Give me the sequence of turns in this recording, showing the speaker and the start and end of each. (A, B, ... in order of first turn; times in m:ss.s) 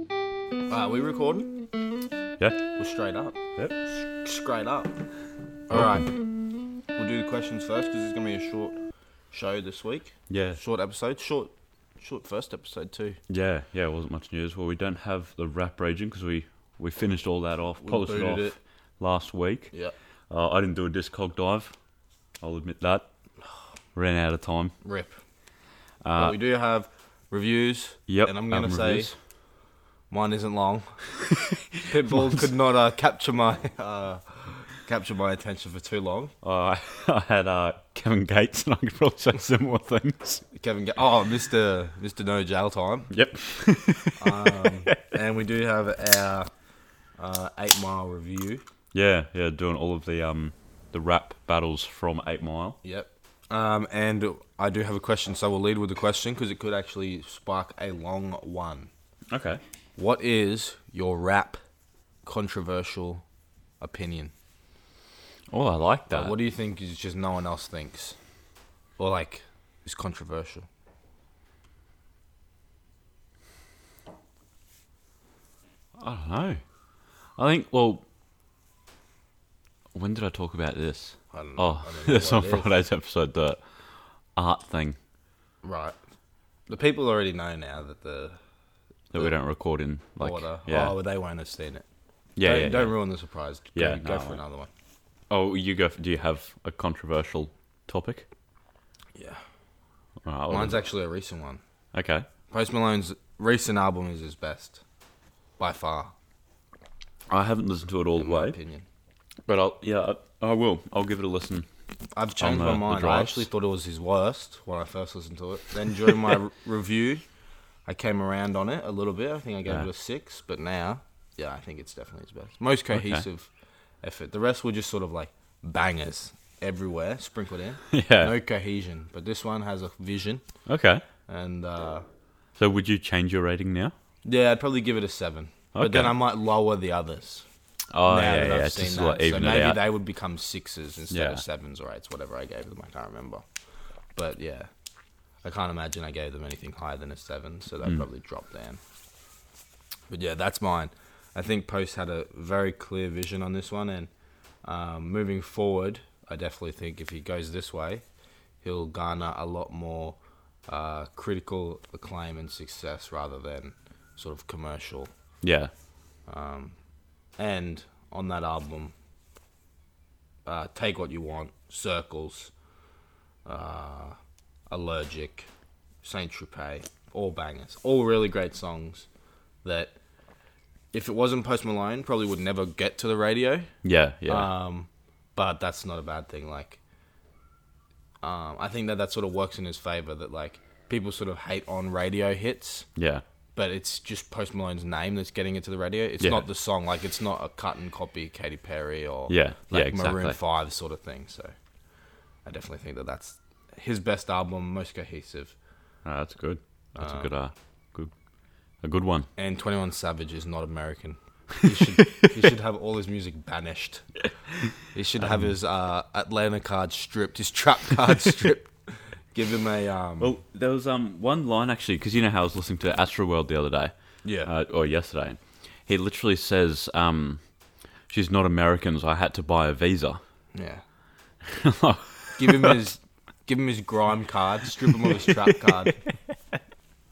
0:00.7-0:01.5 A
0:02.7-0:03.4 A
0:04.2-0:04.9 A
0:05.7-0:06.1 A
0:05.7-0:06.0 B
0:07.0-0:08.8 A
0:09.3-0:13.2 A
0:10.3-0:10.6 B
0:13.3-0:19.7 B
0:17.8-0:18.6 A
0:20.3-0:21.7 B
0:22.4-0:23.1 B
0:24.0-0:24.7 B
0:24.8-0:25.2 A
0:26.0-0:26.4 B
0:26.2-0:29.1 A
0:28.1-0:29.2 B
0:30.1-0:31.0 A
0:31.3-0:31.6 B
0:31.8-0:36.3 A
0:36.4-0:40.4 B
0:40.6-0:43.1 A
0:43.1-0:45.0 B
0:44.2-0:46.5 A
0:47.2-0:48.6 A
0:48.9-0:52.8 B
0:52.8-0:58.9 A
0:59.3-0:59.6 B
1:00.0-1:01.6 A
1:02.2-1:03.2 A
1:03.8-1:04.3 A
1:05.5-1:06.3 B
1:06.1-1:08.2 A
1:09.0-1:10.7 A
1:16.0-1:16.6 B
1:17.4-1:18.0 B
1:19.9-1:23.6 B
1:21.3-1:22.7 A
1:24.4-1:25.0 B
1:25.6-1:26.0 A
1:26.7-1:28.4 A
1:29.1-1:30.9 B
1:30.2-1:31.8 A
1:32.4-1:32.9 B
1:32.4-1:34.7 A
1:33.8-1:34.4 B
1:35.3-1:38.2 B
1:39.2-1:39.4 A
1:40.2-1:40.8 B
1:40.5-1:41.6 A
1:41.9-1:42.3 B
1:42.5-1:44.8 A
1:45.6-1:46.1 A
1:47.3-1:48.6 B
1:48.2-1:48.8 A
1:49.5-1:51.7 B
1:52.2-1:57.2 A
1:52.4-1:53.5 B
1:57.8-2:03.5 A
2:02.9-2:03.2 B
2:04.0-2:10.4 A
2:07.9-2:08.3 B
2:10.7-2:11.0 B
2:11.3-2:12.0 A
2:12.6-2:13.9 B
2:14.2-2:17.4 A
2:15.7-2:16.1 B
2:17.9-2:19.8 B
2:18.1-2:23.4 A
2:21.1-2:21.4 B
2:24.1-2:24.7 A
2:25.4-2:28.8 A
2:30.1-2:34.1 A
2:34.6-2:38.0 A
2:38.6-2:40.2 A
2:40.7-2:45.1 A
2:45.4-2:45.7 B
2:46.3-2:46.8 A
2:47.4-2:48.9 A
2:50.4-2:52.5 A
2:53.4-2:54.2 A
2:54.7-2:55.5 A
2:56.0-2:59.1 A
2:59.6-2:59.9 A
3:00.9-3:03.7 A
3:03.8-3:04.5 B
3:04.3-3:06.8 A
3:08.2-3:12.9 A
3:13.0-3:13.2 B
3:13.6-3:21.5 A
3:16.2-3:16.4 B
3:19.3-3:20.4 B
3:22.4-3:25.5 A
3:26.0-3:28.1 B
3:27.0-3:27.3 A
3:28.8-3:29.3 B
3:29.4-3:34.1 A
3:34.9-3:38.7 A
3:35.2-3:35.5 B
3:39.3-3:40.3 A
3:40.2-3:43.9 B
3:44.2-3:44.5 A
3:44.4-3:47.4 B
3:48.1-3:50.2 B
3:50.6-3:50.8 A
3:51.4-3:52.8 B
3:52.4-3:55.9 A
3:54.9-3:56.1 B